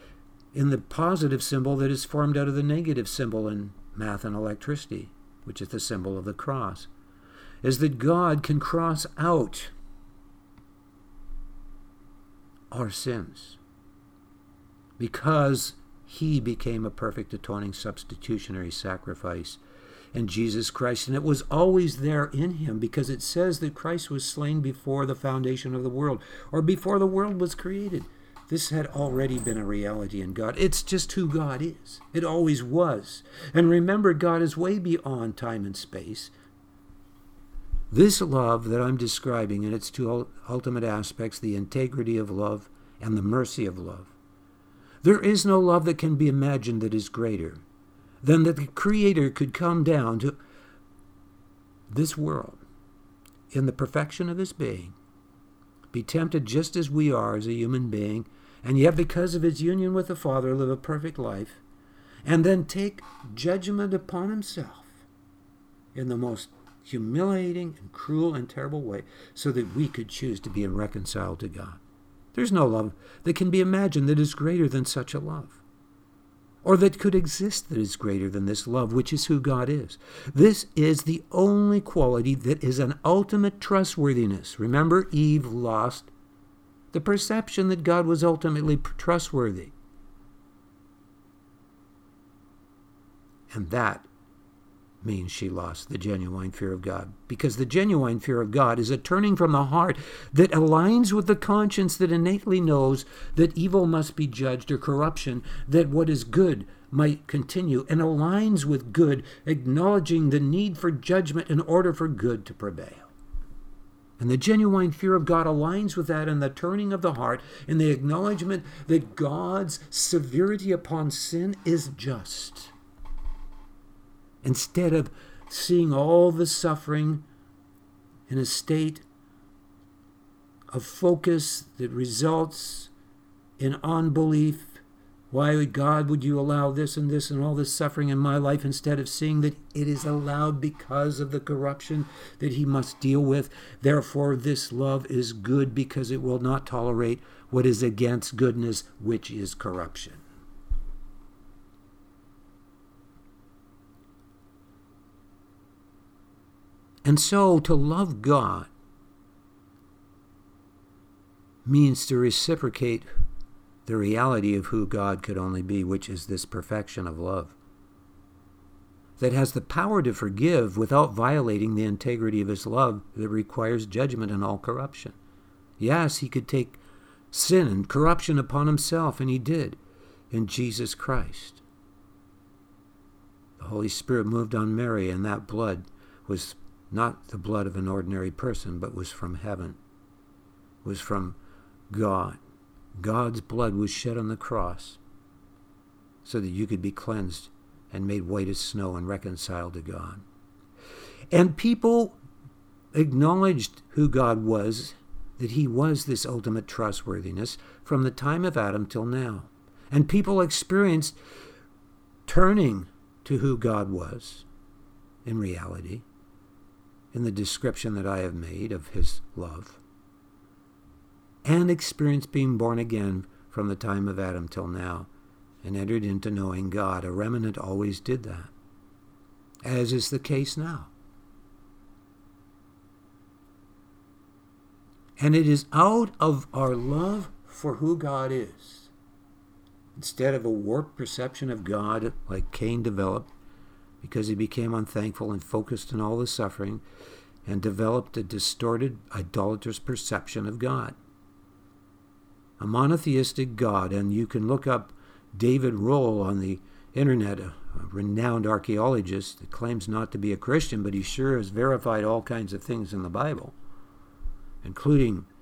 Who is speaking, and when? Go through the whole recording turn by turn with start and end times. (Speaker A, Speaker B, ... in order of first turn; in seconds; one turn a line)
Speaker A: 0.5-6.9
Speaker A: 7.6-9.7
Speaker A: 12.7-13.6
Speaker A: 15.0-19.6
Speaker A: 20.1-36.3
Speaker A: 37.9-44.1
Speaker A: 45.0-47.6
Speaker A: 48.2-50.4
Speaker A: 51.9-52.6
Speaker A: 53.5-55.0
Speaker A: 55.9-61.6
Speaker A: 62.2-65.0
Speaker A: 65.9-71.8
Speaker A: 72.3-75.6
Speaker A: 76.6-86.1
Speaker A: 86.9-89.7
Speaker A: 93.5-94.1
Speaker A: 95.0-113.1
Speaker A: 114.2-122.7
Speaker A: 124.4-127.2
Speaker A: 128.3-129.0
Speaker A: 130.7-132.9
Speaker A: 133.6-150.2
Speaker A: 157.0-158.7
Speaker A: 161.6-163.1
Speaker A: 163.8-167.6
Speaker A: 169.2-175.2
Speaker A: 175.8-176.8
Speaker A: 177.3-179.8
Speaker A: 180.3-181.6
Speaker A: 183.6-189.8
Speaker A: 190.8-191.4
Speaker A: 191.9-192.4
Speaker A: 193.0-195.0
Speaker A: 196.2-200.2
Speaker A: 201.3-202.2
Speaker A: 202.9-211.2
Speaker A: 212.3-214.4
Speaker A: 215.2-216.0
Speaker A: 217.1-219.8
Speaker A: 221.4-225.1
Speaker A: 225.6-228.5
Speaker A: 229.6-230.9
Speaker A: 235.2-238.9
Speaker A: 239.9-243.3
Speaker A: 244.0-246.8
Speaker A: 247.4-251.0
Speaker A: 252.6-263.5
Speaker A: 264.6-265.3